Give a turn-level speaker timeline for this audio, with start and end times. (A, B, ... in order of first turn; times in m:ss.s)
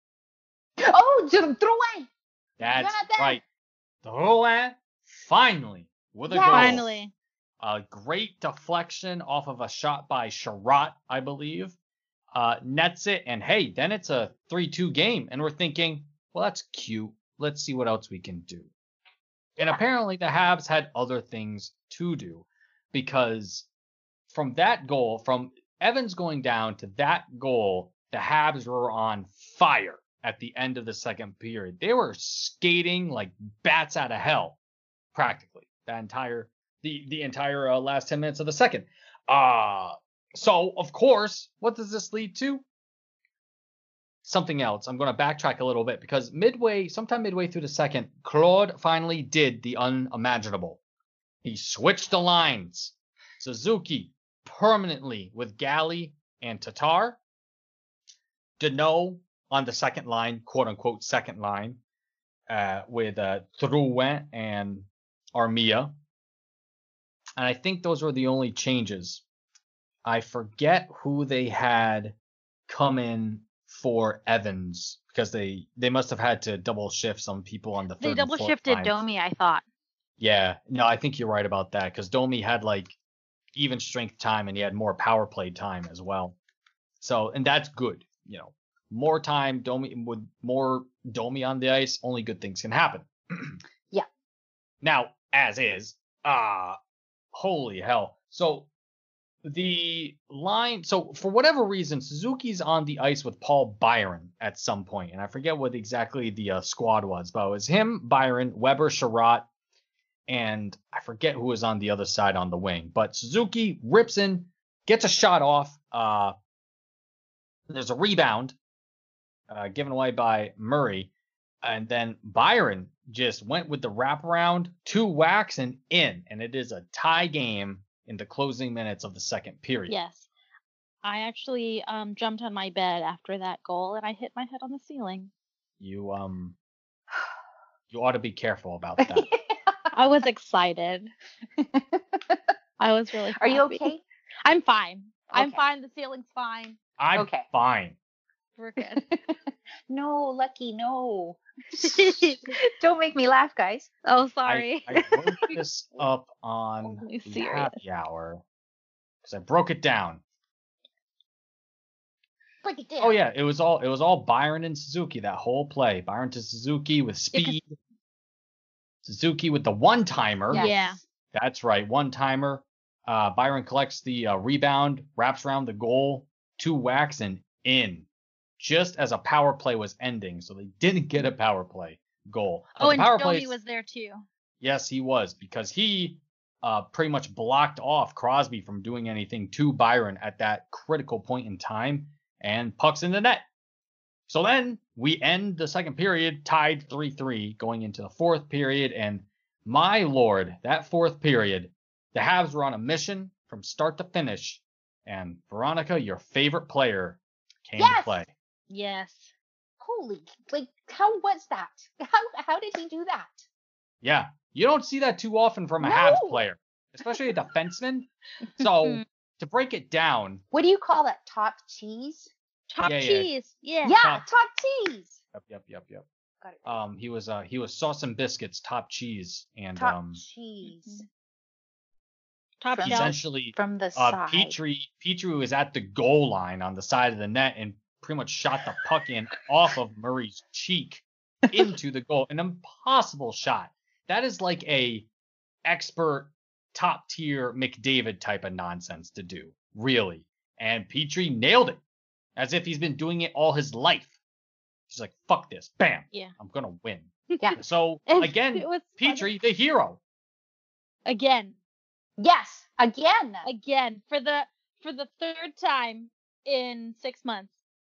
0:00.8-0:02.1 A
0:02.6-0:03.4 B
0:02.7-0:03.4 A
0:04.0-0:07.0 B
0:06.3-0:06.9 A
0:06.5-0:07.1 C
0:07.6-0:11.7 B
0:12.3-0:18.7 B
0:19.6-0:23.7 B
0:24.3-0:34.6 B
0:35.1-0:42.6 B
0:44.2-0:50.8 B
0:51.4-0:57.2 B
0:58.6-1:01.8 B
1:02.5-1:05.9 B
1:07.4-1:09.2 B
1:10.0-1:12.2 B
1:12.7-1:19.0 B
1:18.0-1:19.6 C
1:20.2-1:22.9 B
1:23.5-1:26.4 B
1:27.0-1:33.6 B
1:34.8-1:36.8 B
1:37.3-1:38.7 B
1:39.4-1:49.5 B
1:50.3-1:56.3 B
1:57.7-1:58.6 B
1:59.5-2:01.1 B
2:01.6-2:10.0 B
2:09.9-2:10.3 C
2:11.0-2:15.3 C
2:15.8-2:16.6 B
2:17.9-2:19.3 B
2:19.0-2:19.9 A
2:19.9-2:21.1 C
2:21.6-2:22.5 A
2:22.8-2:23.9 C
2:23.4-2:24.0 A
2:24.4-2:26.8 C
2:25.3-2:25.6 A
2:27.0-2:28.0 B
2:27.2-2:27.4 A
2:28.6-2:29.0 C
2:28.8-2:29.4 A
2:29.9-2:33.9 A
2:31.8-2:32.5 C
2:34.0-2:35.6 C
2:34.4-2:38.4 B
2:36.8-2:37.8 C
2:39.2-2:40.2 B
2:42.6-2:43.2 A
2:43.0-2:47.7 B
2:49.0-2:50.7 B
2:50.5-2:51.0 A
2:50.5-2:51.0 C
2:51.3-2:58.1 B
2:58.6-3:03.6 B
3:02.8-3:04.2 C
3:04.6-3:13.4 B
3:14.3-3:28.3 B
3:27.8-3:28.2 A
3:28.7-3:29.3 C
3:29.8-3:33.4 A
3:34.0-3:40.4 B
3:35.8-3:36.4 A
3:38.6-3:39.0 C
3:40.5-3:42.3 A
3:42.7-3:44.0 C
3:42.8-3:43.3 B
3:43.8-3:45.2 A
3:43.9-3:44.2 B
3:45.3-3:46.0 B
3:46.4-3:46.8 A
3:46.6-3:50.2 B
3:49.8-3:51.0 A
3:50.6-3:51.0 C
3:52.6-3:53.2 C
3:52.7-3:54.6 A
3:52.8-4:05.1 B
4:05.6-4:11.8 B
4:12.4-4:14.1 B
4:14.9-4:20.0 B
4:17.3-4:17.6 C
4:18.1-4:19.2 C
4:21.0-4:21.5 C
4:22.2-4:23.5 A
4:23.4-4:27.5 C